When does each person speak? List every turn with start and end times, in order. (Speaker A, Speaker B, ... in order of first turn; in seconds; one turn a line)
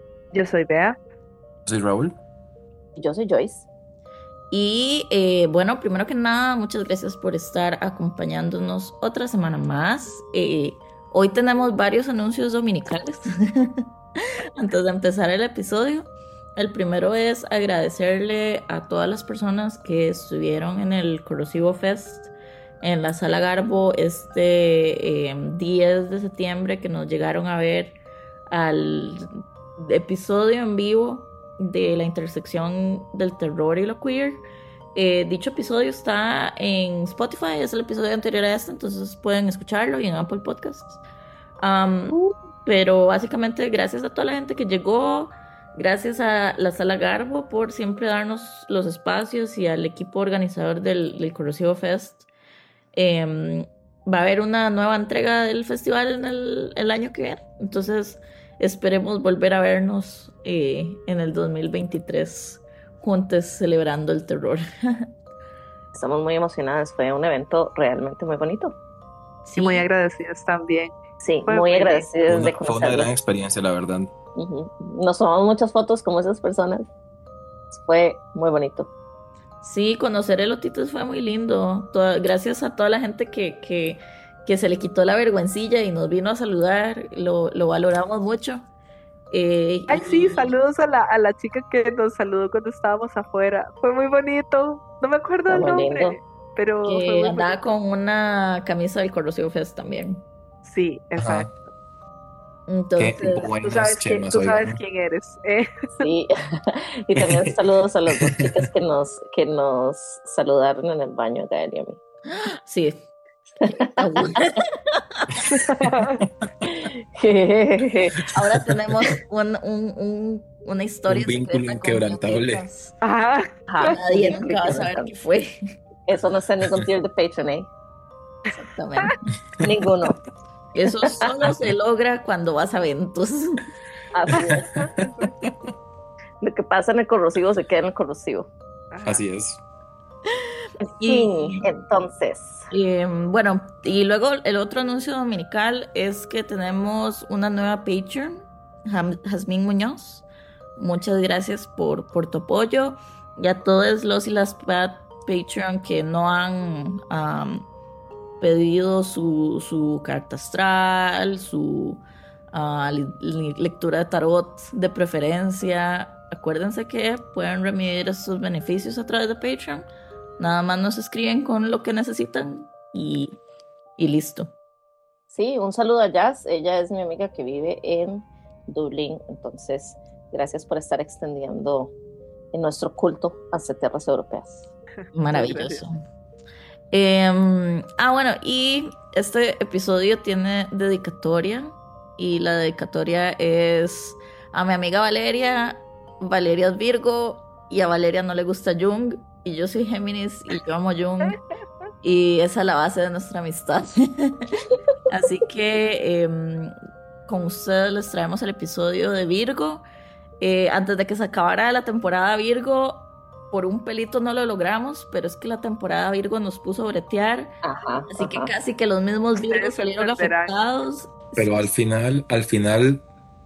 Speaker A: 0.3-1.0
Speaker B: 1.7-2.1
Speaker C: 3.0-3.7
Speaker D: 4.5-13.8
Speaker D: 14.6-22.3
Speaker D: 22.8-28.0
Speaker D: 28.5-34.4
Speaker D: 35.0-41.0
Speaker D: 41.6-52.3
Speaker D: 52.9-65.1
Speaker C: 65.9-68.8
Speaker D: 69.5-69.8
Speaker A: 69.6-70.9
Speaker C: 71.2-73.1
Speaker A: 71.5-72.1
Speaker B: 72.3-74.1
Speaker C: 74.3-76.9
Speaker C: 77.7-78.9
Speaker D: 79.6-88.6
Speaker D: 89.3-90.5
Speaker A: 89.9-97.7
Speaker C: 95.5-96.2
Speaker D: 96.9-100.2
Speaker A: 100.6-101.5
Speaker B: 101.2-101.5
Speaker D: 102.7-103.5
Speaker B: 103.0-104.8
Speaker A: 103.6-106.1
Speaker C: 106.0-112.0
Speaker B: 107.2-107.5
Speaker B: 108.2-108.6
Speaker D: 112.3-113.0
Speaker C: 113.6-114.6
Speaker D: 114.0-115.2
Speaker A: 115.5-116.2
Speaker B: 115.8-116.5
Speaker C: 116.6-118.3
Speaker D: 118.3-122.9
Speaker B: 121.1-122.7
Speaker A: 123.0-124.0
Speaker C: 123.7-125.1
Speaker D: 123.8-125.6
Speaker C: 126.1-127.7
Speaker D: 128.6-129.2
Speaker C: 129.6-130.2
Speaker D: 130.8-133.7
Speaker B: 131.5-131.7
Speaker C: 134.1-134.7
Speaker B: 134.3-135.5
Speaker A: 134.5-135.4
Speaker C: 136.4-138.5
Speaker A: 138.9-139.2
Speaker B: 139.0-139.6
Speaker D: 140.4-141.7
Speaker C: 140.9-142.7
Speaker D: 142.7-150.3
Speaker D: 150.8-157.7
Speaker D: 158.4-169.9
Speaker D: 170.4-173.4
Speaker D: 174.0-174.5
Speaker C: 175.3-181.9
Speaker C: 182.5-184.7
Speaker D: 185.2-185.9
Speaker A: 185.3-185.8
Speaker D: 186.9-201.4
Speaker D: 202.0-206.8
Speaker D: 207.3-209.8
Speaker D: 210.4-217.5
Speaker C: 217.6-218.5
Speaker D: 218.1-221.5
Speaker A: 219.4-220.6
Speaker B: 221.3-223.0